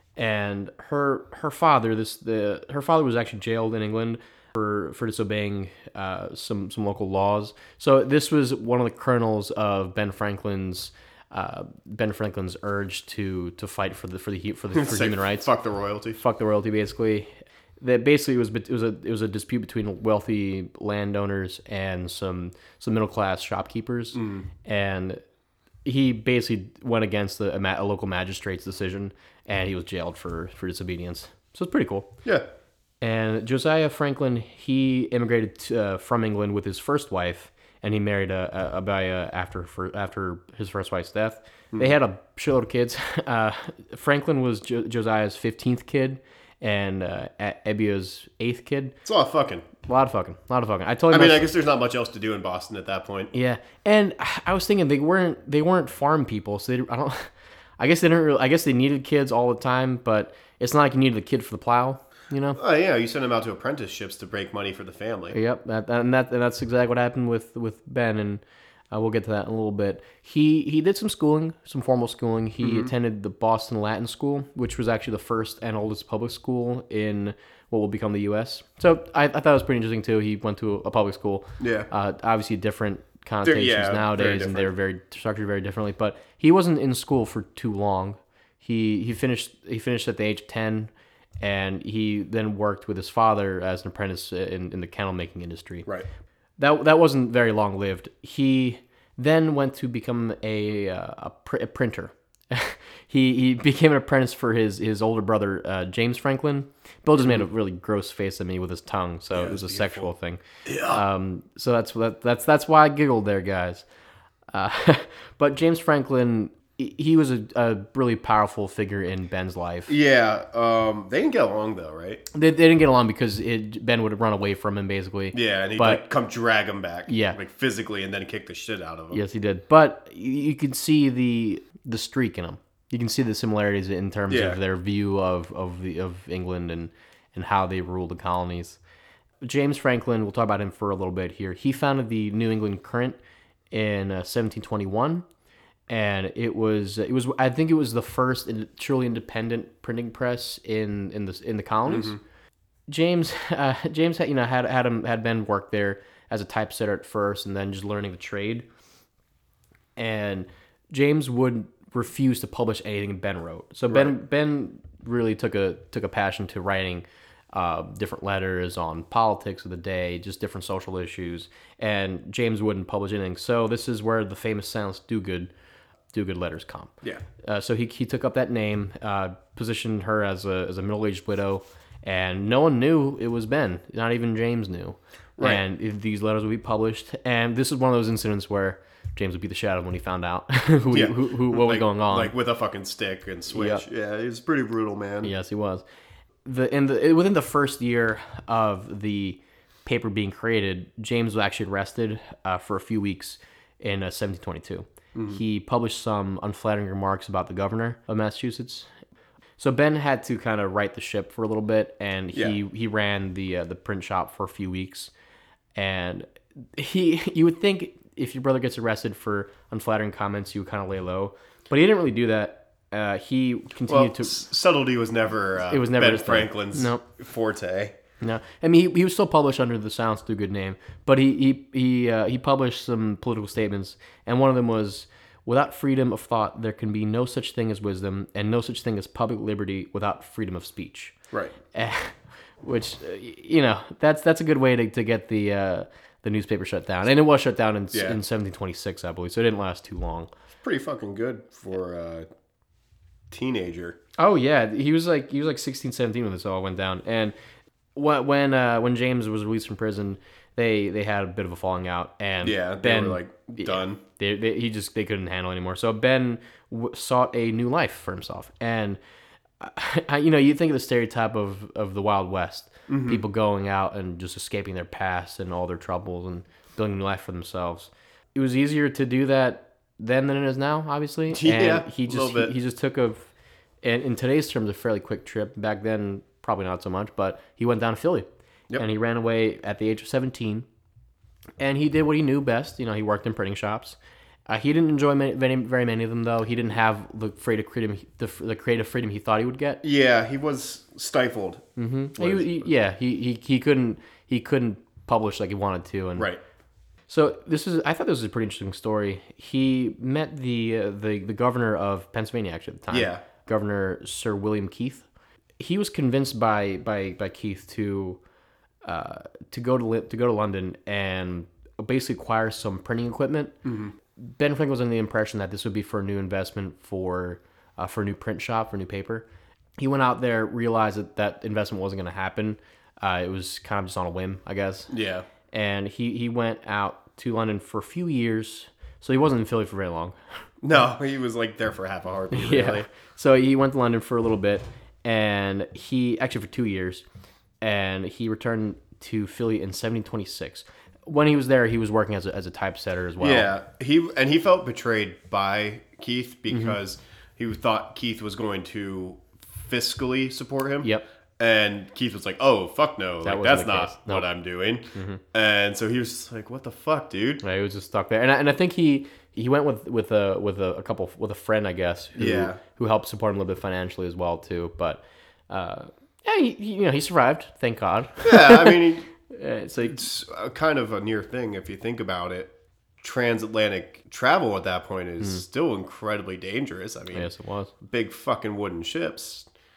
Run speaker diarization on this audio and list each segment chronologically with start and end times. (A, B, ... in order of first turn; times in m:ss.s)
0:00.2-0:15.5 A
0:14.7-0:16.2 B
0:16.2-0:17.3 A
0:17.8-0:25.2 A
0:24.2-0:24.5 B
0:25.8-0:32.1 A
0:33.0-0:49.0 A
0:49.0-0:49.7 B
0:49.8-0:51.5 A
0:51.1-0:53.3 B
0:53.3-1:02.6 A
1:02.6-1:05.4 B
1:05.3-1:30.9 A
1:12.6-1:12.9 B
1:21.6-1:21.9 B
1:23.4-1:24.7 B
1:31.4-1:35.9 A
1:36.6-1:53.8 A
1:49.3-1:50.1 B
1:50.6-1:51.0 B
1:54.5-1:59.9 A
1:59.9-2:02.2 B
2:02.3-2:06.0 A
2:05.3-2:09.2 B
2:07.1-2:07.4 A
2:09.1-2:18.8 A
2:14.3-2:14.6 B
2:19.4-2:23.2 A
2:23.7-2:25.2 A
2:25.9-2:32.2 A
2:31.9-2:32.2 B
2:32.9-2:38.7 A
2:40.0-2:55.5 A
2:43.9-2:44.2 B
2:56.1-3:12.3 A
3:10.9-3:15.3 B
3:13.5-3:13.8 A
3:15.2-3:15.8 A
3:16.4-3:28.9 A
3:25.2-3:25.4 B
3:29.6-3:35.1 A
3:35.8-3:44.4 A
3:43.9-3:48.0 B
3:45.7-3:47.0 A
3:48.2-4:01.2 A
4:01.7-4:10.3 A
4:07.9-4:08.2 B
4:10.6-4:12.3 B
4:13.3-4:14.0 B
4:14.2-4:17.3 A
4:18.0-4:29.0 A
4:22.4-4:24.0 B
4:29.6-4:43.3 A
4:32.9-4:33.2 B
4:41.3-4:42.6 B
4:43.8-4:50.7 A
4:51.6-4:54.0 A
4:54.5-4:59.8 A
4:59.8-5:01.6 B
5:01.8-5:06.3 A
5:02.2-5:02.7 B
5:07.1-5:15.1 A
5:12.9-5:13.2 B
5:15.6-5:18.2 A
5:18.8-5:23.6 A
5:23.6-5:23.9 B
5:24.2-5:29.3 A
5:29.8-5:34.9 A
5:34.9-5:35.3 B
5:35.5-5:40.2 A
5:40.6-5:42.9 B
5:42.3-5:47.0 A
5:47.6-5:53.5 A
5:53.2-6:07.4 B
6:03.2-6:04.3 A
6:04.9-6:05.2 A
6:07.4-6:20.0 A
6:12.2-6:12.6 B
6:18.2-6:19.1 B
6:19.9-6:27.3 B
6:27.1-6:27.7 A
6:27.8-6:29.5 B